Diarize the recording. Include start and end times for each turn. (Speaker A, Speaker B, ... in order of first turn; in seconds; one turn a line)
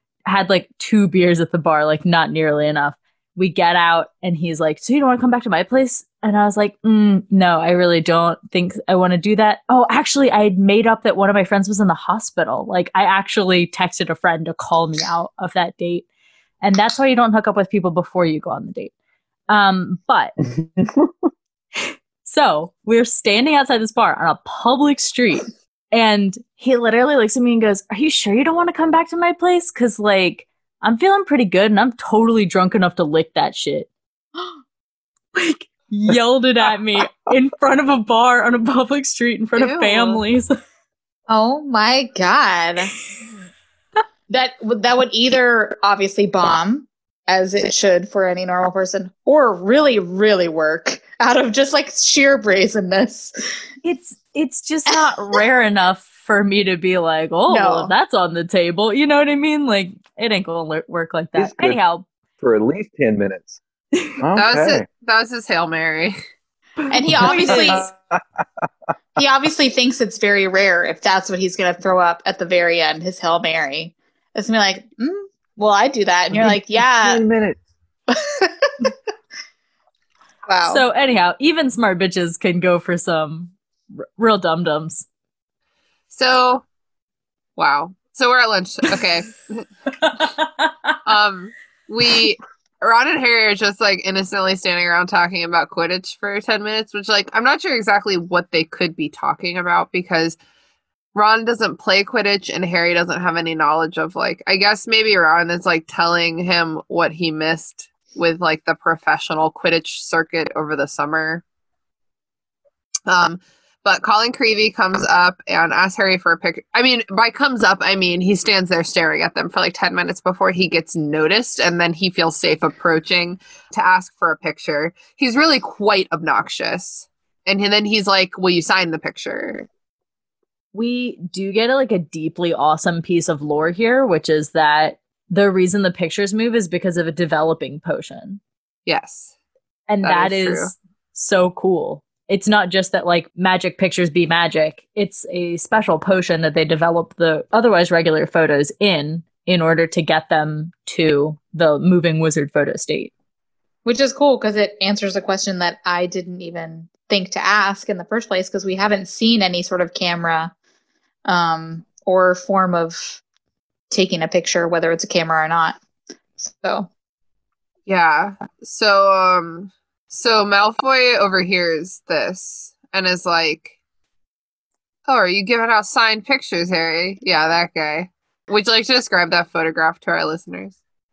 Speaker A: 0.3-16.1
Speaker A: 16.6-18.9
Speaker A: 19.5-20.3
Speaker B: 20.4-21.1
Speaker A: 22.2-33.9
Speaker A: 35.3-40.5
Speaker C: 39.5-40.2
Speaker D: 41.3-42.9
Speaker D: 44.3-53.3
Speaker A: 53.8-62.0
Speaker D: 57.5-57.9
Speaker B: 61.4-61.8
Speaker B: 62.4-63.6
Speaker B: 64.2-64.8
Speaker C: 64.3-66.2
Speaker D: 66.9-67.9
Speaker B: 67.1-68.6
Speaker A: 67.2-67.8
Speaker D: 69.2-77.2
Speaker B: 76.3-77.6
Speaker D: 78.1-78.9
Speaker D: 80.5-80.8
Speaker A: 80.6-85.0
Speaker C: 86.1-86.6
Speaker C: 87.6-89.7
Speaker A: 90.0-90.9
Speaker C: 91.0-100.4
Speaker C: 101.1-111.4
Speaker C: 113.1-129.7
Speaker A: 130.7-138.4
Speaker C: 138.8-139.3
Speaker A: 139.9-153.1
Speaker C: 140.0-140.7
Speaker D: 153.8-160.5
Speaker D: 161.2-163.2
Speaker D: 163.9-165.8
Speaker D: 166.4-166.9
Speaker C: 167.9-173.7
Speaker C: 175.1-180.8